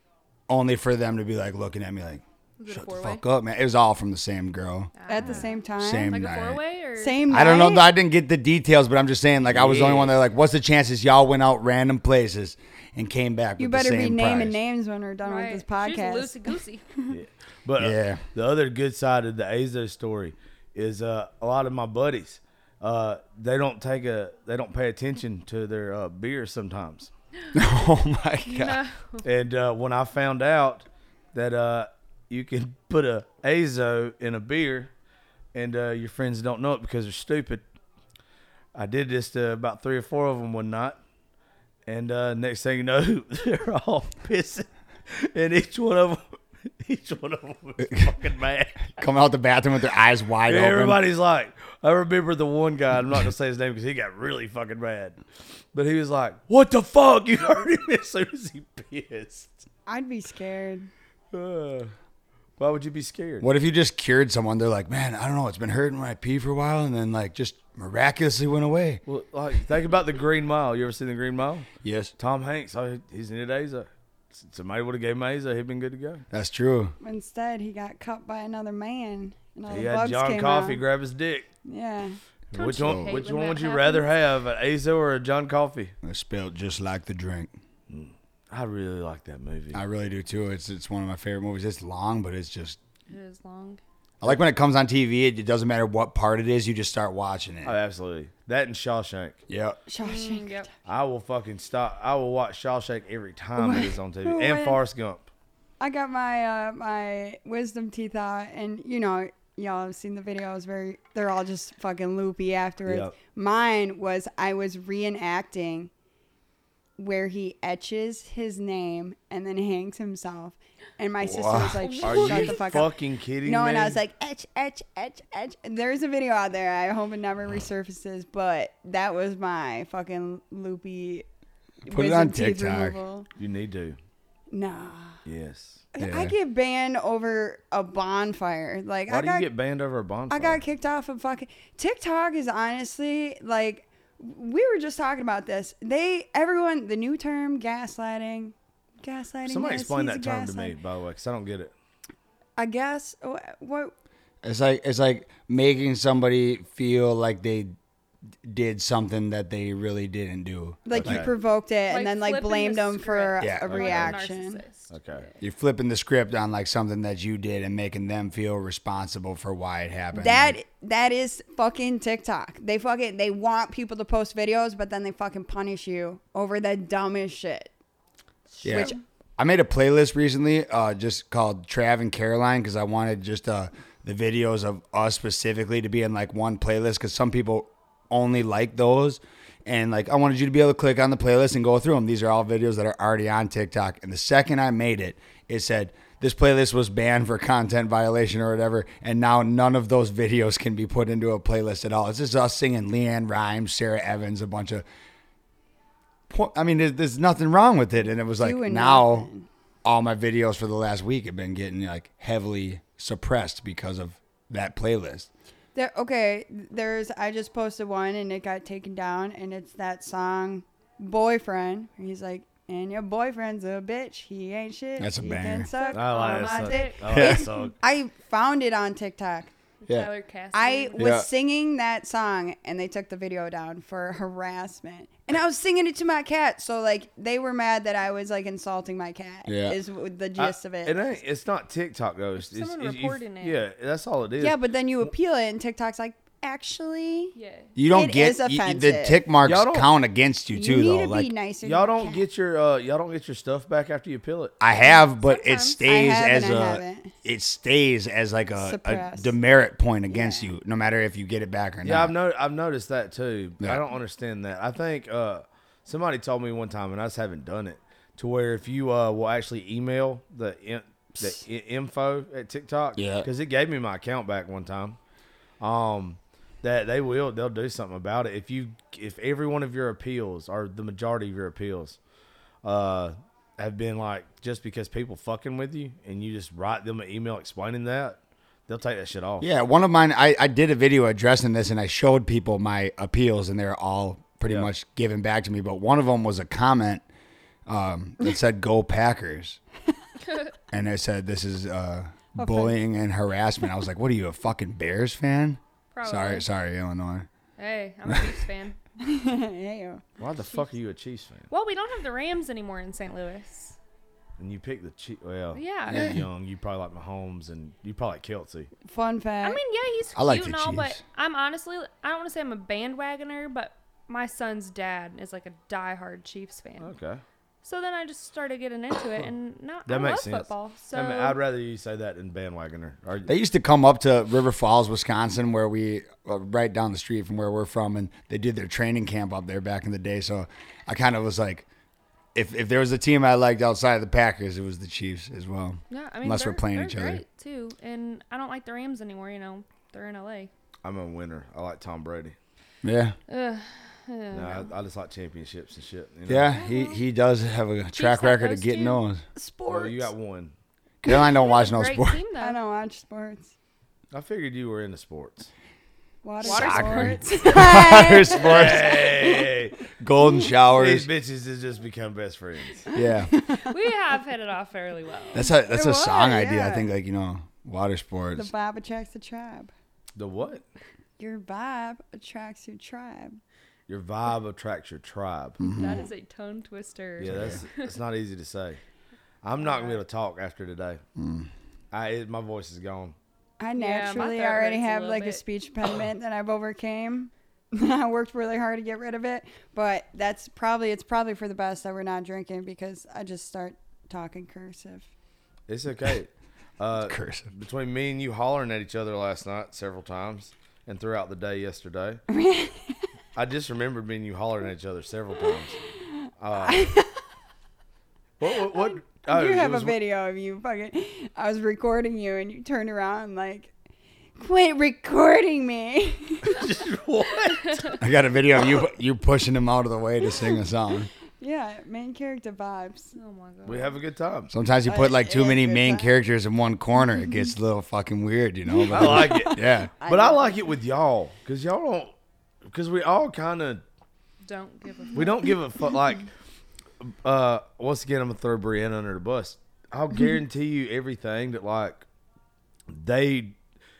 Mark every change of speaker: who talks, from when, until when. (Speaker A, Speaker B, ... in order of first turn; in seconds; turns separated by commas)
Speaker A: 0.5-4.9, Speaker B: 2.6-3.2, Speaker B: 4.9-7.6, Speaker C: 5.1-6.2, Speaker A: 5.8-6.6, Speaker C: 7.0-7.9, Speaker A: 7.3-14.6, Speaker D: 9.5-10.2, Speaker C: 13.6-16.5, Speaker B: 15.2-16.9, Speaker D: 17.1-27.1, Speaker A: 17.8-18.2, Speaker A: 27.5-28.8, Speaker B: 28.5-29.3, Speaker D: 29.2-34.9, Speaker D: 35.5-37.6, Speaker D: 38.8-41.0, Speaker D: 41.9-49.0, Speaker A: 49.0-51.0, Speaker D: 50.5-55.2, Speaker D: 55.7-59.6, Speaker C: 59.9-60.9, Speaker D: 61.3-61.9, Speaker D: 62.6-63.5, Speaker A: 63.4-69.0, Speaker D: 69.1-71.7, Speaker A: 71.8-72.1, Speaker D: 72.2-76.2, Speaker A: 76.3-77.0, Speaker C: 77.0-80.8, Speaker D: 79.7-81.5, Speaker C: 81.7-82.2, Speaker D: 82.5-85.9, Speaker B: 82.5-84.1, Speaker A: 82.8-83.1, Speaker A: 86.0-87.5, Speaker D: 87.9-89.8, Speaker A: 89.7-92.8, Speaker B: 93.1-93.8, Speaker A: 94.2-97.8, Speaker D: 97.6-99.4, Speaker A: 99.5-99.8, Speaker C: 99.9-100.6, Speaker B: 100.0-100.7, Speaker D: 100.9-105.3, Speaker C: 103.6-104.8, Speaker C: 105.8-115.9, Speaker D: 112.9-113.1, Speaker C: 117.0-122.9, Speaker A: 121.2-121.8, Speaker B: 121.8-122.8, Speaker D: 122.0-124.0, Speaker C: 123.4-131.3, Speaker C: 131.9-133.3, Speaker A: 131.9-133.0, Speaker D: 133.4-134.0, Speaker C: 134.5-135.2, Speaker D: 135.3-135.8, Speaker C: 135.9-139.5, Speaker A: 136.0-136.3, Speaker D: 139.1-140.6, Speaker C: 140.3-150.8, Speaker D: 149.5-151.7, Speaker C: 152.6-153.9, Speaker A: 154.4-157.8, Speaker A: 158.4-161.3, Speaker C: 160.9-164.6, Speaker D: 160.9-161.3, Speaker B: 161.9-165.4, Speaker A: 163.4-163.9, Speaker D: 163.7-164.1, Speaker D: 164.9-165.3, Speaker A: 165.4-170.6, Speaker C: 170.1-177.7, Speaker C: 178.6-179.0, Speaker A: 178.6-204.8, Speaker A: 206.3-209.3, Speaker C: 208.4-209.5, Speaker A: 209.8-215.3, Speaker C: 215.8-229.5, Speaker A: 225.0-225.7, Speaker B: 225.7-227.3, Speaker D: 225.9-227.7, Speaker A: 227.1-227.4, Speaker B: 229.8-231.2, Speaker C: 230.5-241.2, Speaker A: 231.0-231.3, Speaker A: 239.5-239.8, Speaker D: 240.4-244.6, Speaker B: 242.4-243.6, Speaker C: 244.4-247.3, Speaker B: 247.3-247.7, Speaker A: 247.8-251.3, Speaker C: 247.9-249.2, Speaker D: 249.4-249.9, Speaker C: 250.5-252.3, Speaker D: 251.6-254.6, Speaker A: 254.6-262.1, Speaker B: 254.7-255.8, Speaker C: 255.9-257.1, Speaker C: 258.6-259.3, Speaker C: 260.1-260.5, Speaker D: 261.8-275.0, Speaker A: 273.0-273.3, Speaker D: 275.6-282.0, Speaker D: 282.6-289.5, Speaker A: 289.4-297.0, Speaker A: 297.7-299.6, Speaker B: 300.3-300.5, Speaker A: 300.7-307.3, Speaker C: 302.4-302.8, Speaker B: 305.9-306.4, Speaker B: 307.6-308.8, Speaker A: 308.1-308.3, Speaker C: 309.0-310.0, Speaker D: 310.2-311.5, Speaker B: 311.5-313.8, Speaker D: 314.4-318.7, Speaker B: 315.5-316.1, Speaker A: 315.9-316.2, Speaker C: 318.9-319.6, Speaker B: 319.4-326.9, Speaker A: 320.1-321.0, Speaker D: 326.8-327.2, Speaker B: 327.6-331.4, Speaker D: 329.9-333.3, Speaker A: 333.3-341.7, Speaker A: 342.4-347.2, Speaker B: 345.9-350.5, Speaker D: 350.8-352.4, Speaker A: 352.8-353.2, Speaker B: 353.3-354.7, Speaker D: 354.3-356.5, Speaker A: 356.3-359.2, Speaker B: 356.5-357.0, Speaker B: 357.9-359.0, Speaker C: 359.4-360.1, Speaker D: 359.7-360.5, Speaker A: 361.0-362.2, Speaker B: 361.3-362.6, Speaker C: 362.4-363.5, Speaker D: 364.1-365.5, Speaker C: 366.2-369.6, Speaker B: 366.4-367.6, Speaker A: 366.4-369.3, Speaker D: 368.3-369.8, Speaker A: 370.0-371.1, Speaker D: 370.7-372.9, Speaker C: 372.9-373.8, Speaker A: 372.9-373.3, Speaker B: 373.6-375.5, Speaker A: 375.3-378.5, Speaker C: 375.6-376.9, Speaker C: 378.4-379.7, Speaker D: 380.2-380.6, Speaker C: 381.2-383.4, Speaker D: 383.9-385.6, Speaker B: 385.6-388.0, Speaker A: 385.6-386.0, Speaker C: 385.7-386.1, Speaker D: 387.2-388.8, Speaker A: 387.3-387.6, Speaker D: 389.4-391.0, Speaker B: 389.6-390.0, Speaker A: 391.2-391.5, Speaker D: 391.9-393.2, Speaker C: 393.6-405.1, Speaker B: 393.8-395.4, Speaker D: 405.7-412.2, Speaker A: 407.0-407.5, Speaker C: 412.3-413.0, Speaker D: 413.4-415.8, Speaker D: 416.4-416.9, Speaker C: 416.5-417.2, Speaker D: 418.4-420.0, Speaker C: 418.5-423.7, Speaker C: 424.4-426.7, Speaker D: 426.4-427.9, Speaker B: 427.7-427.9, Speaker A: 428.0-431.1, Speaker C: 431.4-433.1, Speaker B: 433.1-434.0, Speaker D: 433.6-434.5, Speaker A: 434.5-439.9, Speaker C: 434.9-436.2, Speaker C: 438.7-440.7, Speaker D: 438.9-442.1, Speaker D: 442.7-443.8, Speaker B: 444.4-445.6, Speaker D: 445.1-446.3, Speaker D: 447.0-452.0, Speaker D: 452.9-453.6